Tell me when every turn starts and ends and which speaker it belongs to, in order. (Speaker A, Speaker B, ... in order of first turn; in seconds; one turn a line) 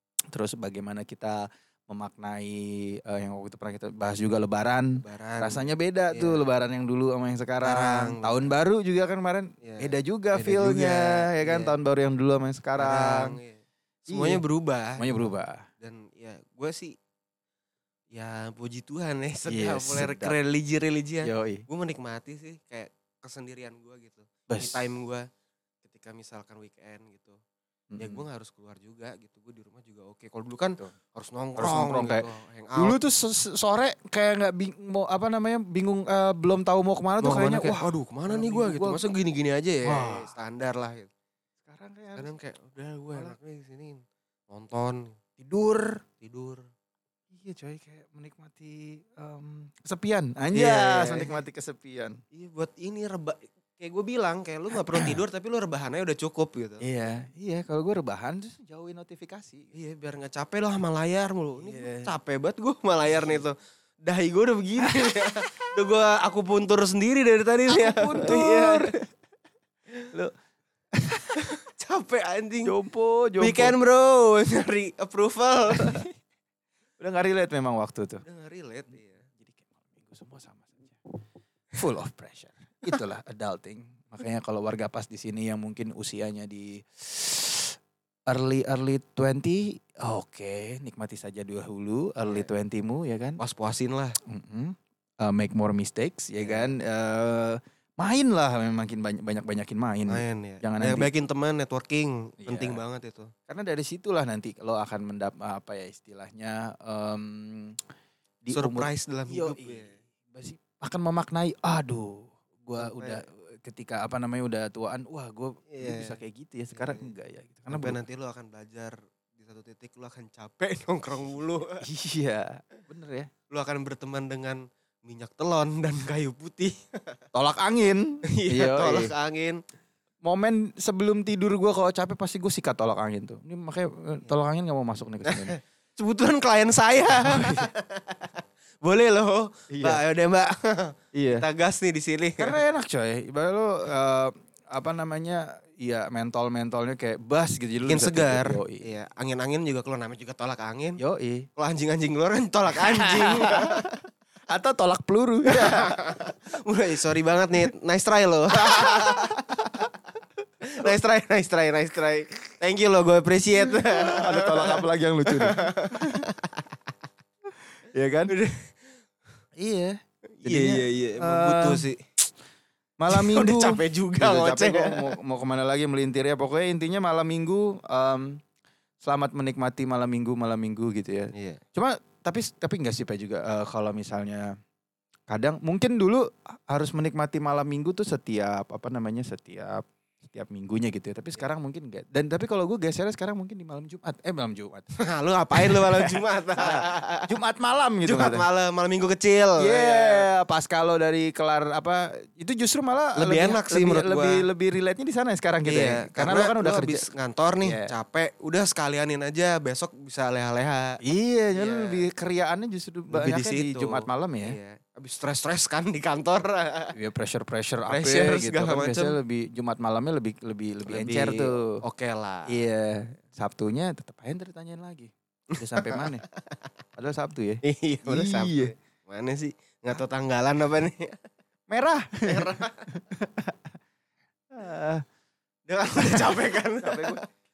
Speaker A: 0.3-13.4
Speaker B: 5.0-6.4
Speaker B: 7.6-8.5
Speaker B: 9.6-11.7
Speaker B: 12.8-15.0
Speaker A: 14.1-14.4
Speaker A: 15.0-15.7
Speaker B: 15.8-16.9
Speaker B: 18.1-25.2
Speaker A: 19.5-20.4
Speaker A: 21.2-21.6
Speaker A: 24.5-24.8
Speaker B: 25.8-27.4
Speaker A: 27.9-28.2
Speaker B: 28.0-33.0
Speaker A: 31.6-39.0
Speaker B: 37.2-41.1
Speaker A: 39.8-40.3
Speaker A: 41.6-42.3
Speaker B: 42.1-45.2
Speaker A: 45.4-46.0
Speaker B: 46.2-46.6
Speaker A: 47.3-52.2
Speaker B: 50.5-51.4
Speaker B: 52.3-56.8
Speaker A: 54.7-55.2
Speaker A: 56.8-59.7
Speaker B: 59.7-69.0
Speaker A: 61.6-62.1
Speaker A: 63.1-63.4
Speaker A: 64.8-65.2
Speaker A: 67.7-69.0
Speaker A: 71.0-71.4
Speaker B: 71.4-72.8
Speaker A: 72.6-73.8
Speaker B: 73.4-76.0
Speaker A: 75.8-76.1
Speaker A: 77.0-78.2
Speaker B: 78.2-79.2
Speaker A: 79.4-81.0
Speaker A: 81.7-87.8
Speaker A: 88.3-93.4
Speaker B: 93.4-94.2
Speaker A: 94.2-101.1
Speaker B: 96.4-96.8
Speaker B: 100.1-103.3
Speaker A: 102.4-102.8
Speaker A: 103.5-107.8
Speaker A: 108.4-118.0
Speaker B: 108.5-109.9
Speaker B: 112.8-113.2
Speaker B: 115.7-116.2
Speaker B: 116.7-117.1
Speaker B: 117.7-121.8
Speaker A: 121.8-123.3
Speaker B: 123.5-127.2
Speaker A: 127.3-129.1
Speaker B: 128.3-129.6
Speaker A: 130.2-135.6
Speaker B: 135.2-142.6
Speaker A: 137.1-137.6
Speaker A: 139.7-140.0
Speaker A: 141.1-141.4
Speaker A: 142.4-148.8
Speaker B: 147.9-151.0
Speaker A: 151.0-151.5
Speaker B: 151.6-153.9
Speaker A: 152.9-153.7
Speaker A: 154.5-156.2
Speaker B: 155.5-159.4
Speaker A: 158.7-159.8
Speaker B: 160.7-166.6
Speaker A: 163.6-166.2
Speaker A: 167.8-168.3
Speaker B: 168.3-168.7
Speaker A: 169.6-171.8
Speaker B: 170.4-172.0
Speaker A: 173.0-178.4
Speaker B: 173.1-175.1
Speaker A: 179.0-184.5
Speaker B: 181.3-181.6
Speaker A: 185.3-194.9
Speaker B: 195.0-197.3
Speaker A: 195.5-198.4
Speaker B: 198.1-200.3
Speaker A: 199.6-207.0
Speaker B: 203.2-204.5
Speaker B: 205.6-211.0
Speaker A: 207.6-207.9
Speaker A: 211.0-214.6
Speaker B: 211.5-212.1
Speaker B: 213.1-216.9
Speaker A: 216.9-221.6
Speaker B: 217.9-219.2
Speaker B: 220.9-222.6
Speaker A: 222.5-226.2
Speaker B: 225.8-226.1
Speaker A: 227.0-228.7
Speaker B: 227.6-231.2
Speaker A: 231.7-233.7
Speaker B: 232.2-232.8
Speaker A: 234.5-235.0
Speaker B: 235.7-237.2
Speaker A: 236.0-237.2